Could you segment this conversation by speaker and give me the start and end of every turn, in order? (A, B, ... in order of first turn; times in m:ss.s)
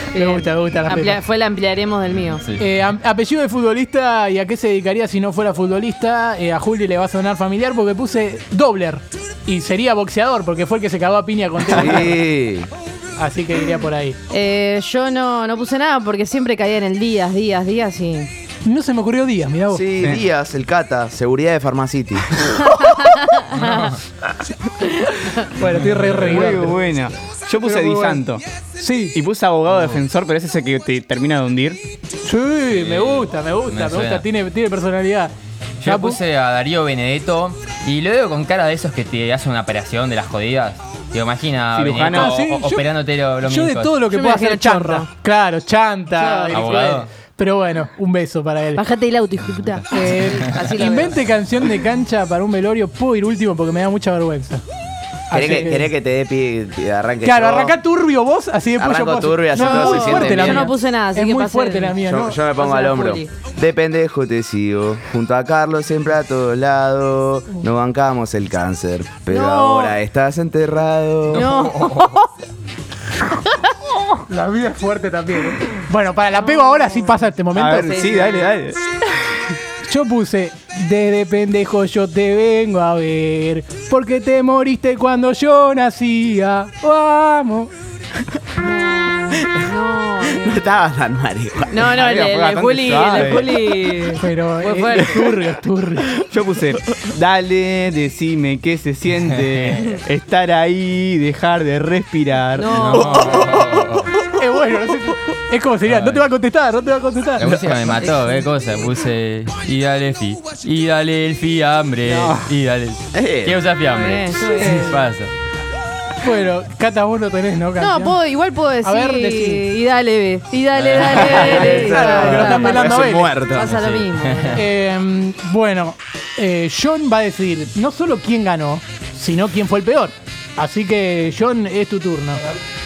0:00.1-0:01.2 A
0:00.1-0:02.4 B
0:02.4-0:02.7 C
0:02.6-0:12.2 A
0:11.7-0:12.7 D
0:13.2-0:14.2 A
0:14.3-0:18.3 B
0:18.6-0:20.0 A
0:19.7-0:22.4 D
0:22.7-0:23.4 B
0:23.5-0:24.0 C
0:25.1-0:25.4 B
0:25.5-0:26.8 A
0:25.6-0:26.5 C
0:26.3-0:28.4 E
0:27.6-0:28.2 A
0:28.8-0:29.2 A
0:29.1-0:31.8 E
0:29.7-0:30.0 C
0:32.2-0:35.3 A
0:32.7-0:34.2 C
0:35.8-0:44.0 C
0:35.8-0:36.2 A
0:41.7-0:42.3 E
0:42.1-0:42.9 A
0:43.4-0:48.8 A
0:44.1-0:45.1 B
0:46.2-0:46.8 B
0:46.5-0:47.1 C
0:48.7-0:51.2 B
0:49.9-0:54.6 A
0:55.3-0:55.9 A
0:55.3-0:57.8 D
0:57.2-1:02.4 A
0:58.8-1:00.7 D
0:59.5-1:02.0 B
1:02.0-1:11.5 D
1:02.5-1:03.3 B
1:09.3-1:10.0 B
1:11.3-1:12.3 B
1:11.3-1:12.1 C
1:14.3-1:17.8 A
1:16.6-1:17.2 B
1:17.5-1:18.8 E
1:17.7-1:18.5 B
1:19.8-1:27.7 A
1:28.6-1:30.8 B
1:30.3-1:31.9 D
1:31.7-1:35.4 B
1:31.9-1:33.7 E
1:34.2-1:36.2 A
1:34.9-1:35.2 E
1:36.2-1:42.9 E
1:39.4-1:39.8 C
1:42.6-1:43.5 B
1:42.7-1:44.2 C
1:43.2-1:43.8 D
1:44.3-1:47.9 A
1:45.8-1:46.3 C
1:47.4-1:55.3 C
1:47.8-1:48.3 B
1:52.0-1:52.5 E
1:53.1-1:53.6 D
1:53.8-1:55.1 B
1:54.6-1:55.0 A
1:56.2-1:58.2 A
1:57.8-2:04.7 B
1:58.8-1:59.7 A
2:00.7-2:02.0 C
2:01.4-2:03.7 D
2:01.5-2:03.3 A
2:03.6-2:04.7 C
2:04.5-2:12.4 A